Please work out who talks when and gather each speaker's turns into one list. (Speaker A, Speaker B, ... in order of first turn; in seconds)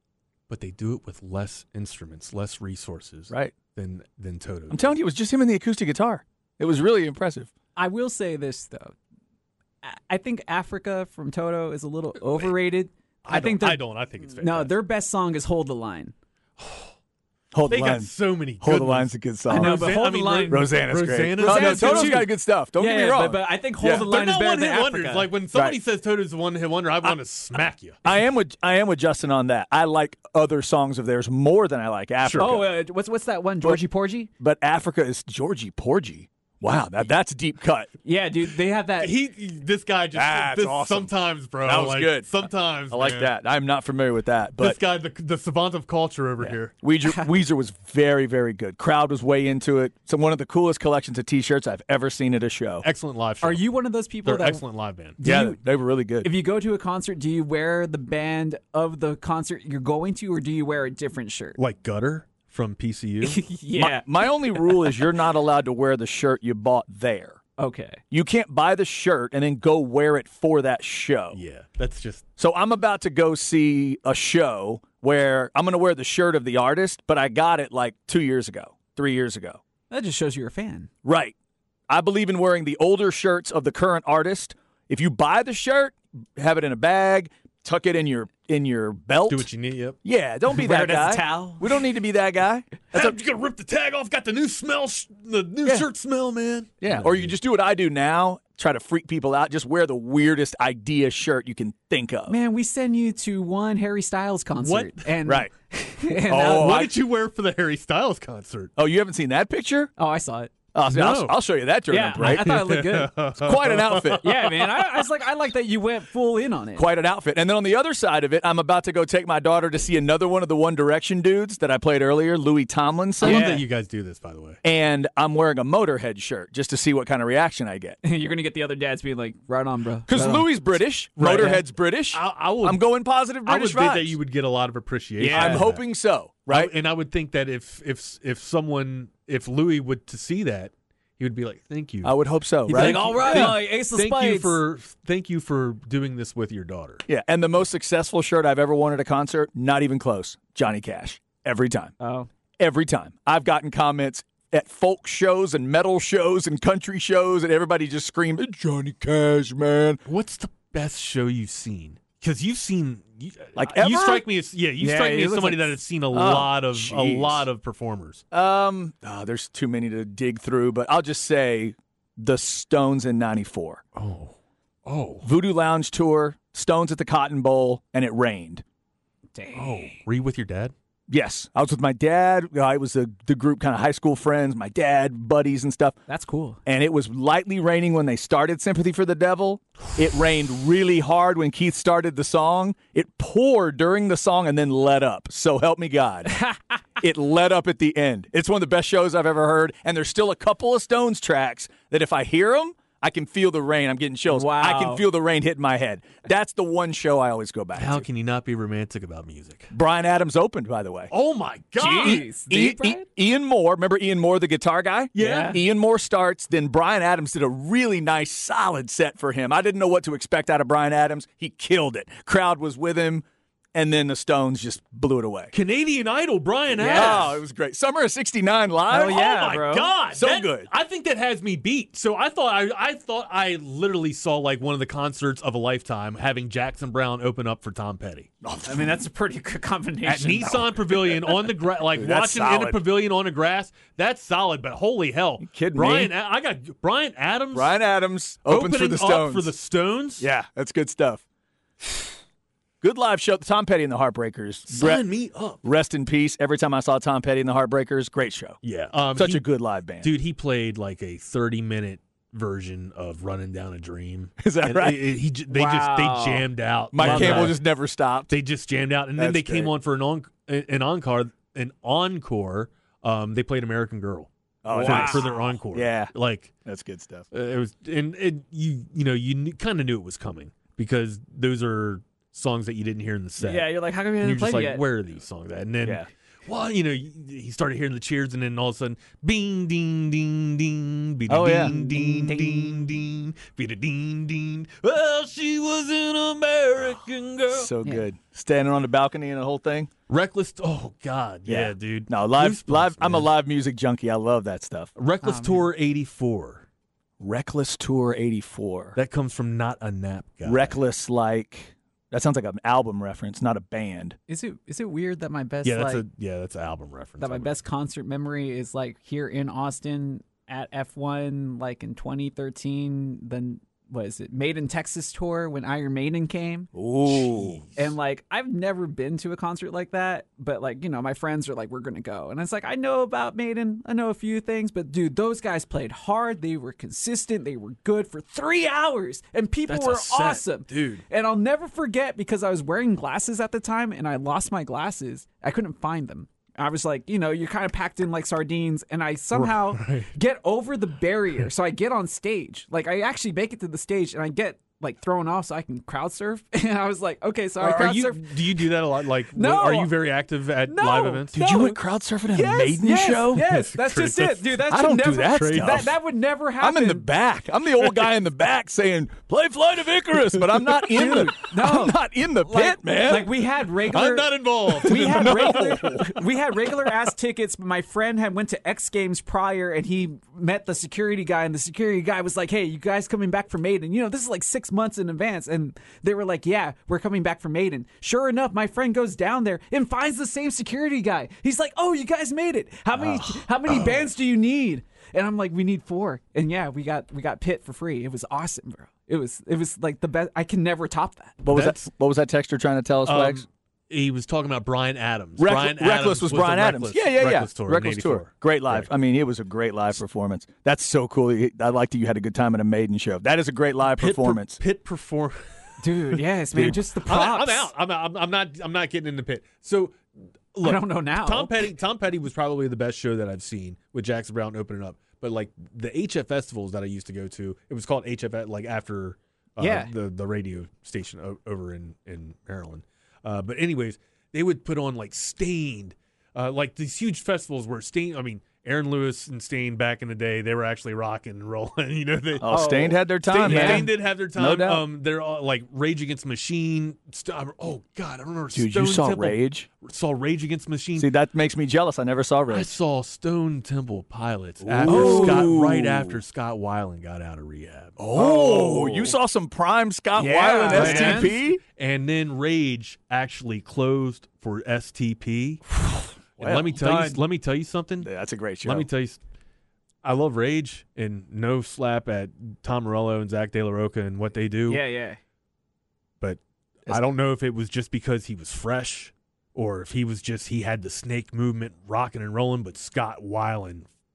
Speaker A: 0.5-5.0, 13.2-14.7, 16.6-16.9, 17.7-22.3, 24.0-28.0, 32.2-32.5, 39.0-43.3, 44.6-46.7, 52.8-53.6, 54.2-55.2, 61.6-63.4, 71.3-72.2, 89.3-90.0, 92.9-97.3, 104.6-105.1, 106.4-108.7, 110.9-111.4, 112.2-114.7, 123.2-124.6, 131.2-132.9, 133.4-135.8, 136.5-142.1, 142.7-147.0, 160.1-168.2, 173.9-174.3, 174.8-175.2, 179.5-180.7, 207.8-209.7, 211.1-212.3, 215.1-215.6, 225.5-227.4, 229.0-238.3, 240.0-247.7, 248.4-250.3, 254.7-255.6, 258.6-259.4, 260.0-267.6, 268.3-274.3, 274.8-276.5, 277.3-297.7, 300.1-303.3, 304.9-306.6, 308.9-310.8, 315.6-317.6, 327.1-327.8, 339.7-341.0, 349.3-350.1, 357.6-361.4, 363.3-365.9, 367.8-368.1, 373.9-376.1, 401.5-401.8, 403.1-408.9, 413.9-415.4, 417.1-420.0, 420.5-451.1, 452.5-459.1, 460.7-465.6, 466.4-468.1, 468.6-469.2, 470.0-474.8, 476.2-483.9
Speaker B: 4.7-7.5, 17.5-19.9, 20.5-24.1, 28.0-32.7, 34.4-37.9, 40.1-41.1, 41.6-44.8, 46.4-52.9, 55.2-56.3, 63.7-67.4, 68.1-71.4, 72.4-79.6, 81.0-81.3, 81.9-89.5, 90.0-93.1, 96.8-102.3, 105.2-105.5, 106.2-106.9, 108.8-109.9, 110.7-112.6, 113.3-114.3, 116.8-123.6, 124.6-128.0, 130.1-134.2, 135.2-136.7, 142.0-143.6, 147.1-151.9, 152.6-160.0, 163.6-164.2, 166.1-167.4, 168.3-173.8, 175.2-178.6, 181.1-186.0, 186.7-196.3, 197.0-208.1, 209.7-211.1, 211.9-225.5, 226.8-229.5, 230.1-230.7, 238.4-239.0, 241.8-242.8, 245.4-246.1, 247.5-249.5, 250.2-251.2, 252.8-255.0, 255.6-258.6, 259.1-260.1, 264.4-265.1, 266.9-268.4, 269.2-269.7, 274.6-276.1, 276.6-277.3, 285.8-286.1, 291.3-291.8, 297.5-299.9, 301.4-304.9, 307.2-309.0, 310.4-314.1, 326.7-327.6, 361.4-363.5, 364.7-365.9, 366.6-373.3, 374.8-376.2, 392.9-393.9, 401.4-403.4, 405.4-414.6, 442.4-444.8, 448.5-449.7, 451.0-452.7, 454.6-456.2, 458.0-461.6, 466.4-467.2, 468.0-468.9
Speaker C: 7.8-8.9, 9.8-16.1, 19.5-20.7, 21.4-25.3, 32.4-34.3, 38.0-39.1, 53.4-54.6, 55.2-55.6, 56.2-61.5, 63.2-65.0, 67.6-68.0, 79.9-80.9, 90.5-91.7, 102.3-106.9, 110.0-110.5, 111.9-113.1, 114.2-116.9, 123.2-123.6, 128.0-130.5, 135.2-135.7, 142.7-144.6, 152.0-152.3, 164.8-165.7, 179.3-180.0, 186.1-186.6, 196.2-196.8, 204.3-205.0, 211.8-213.1, 215.2-215.6, 226.8-227.2, 228.9-229.9, 238.7-241.1, 265.5-266.4, 267.0-267.6, 274.7-275.3, 283.4-284.8, 291.6-292.9, 305.2-305.6, 314.3-316.0, 317.2-326.7, 327.7-358.7, 359.3-359.9, 360.6-361.8, 362.3-367.1, 370.9-401.4, 415.8-417.7, 420.6-421.5, 429.6-429.9, 442.5-443.9, 454.9-455.5, 460.1-461.3, 474.7-475.2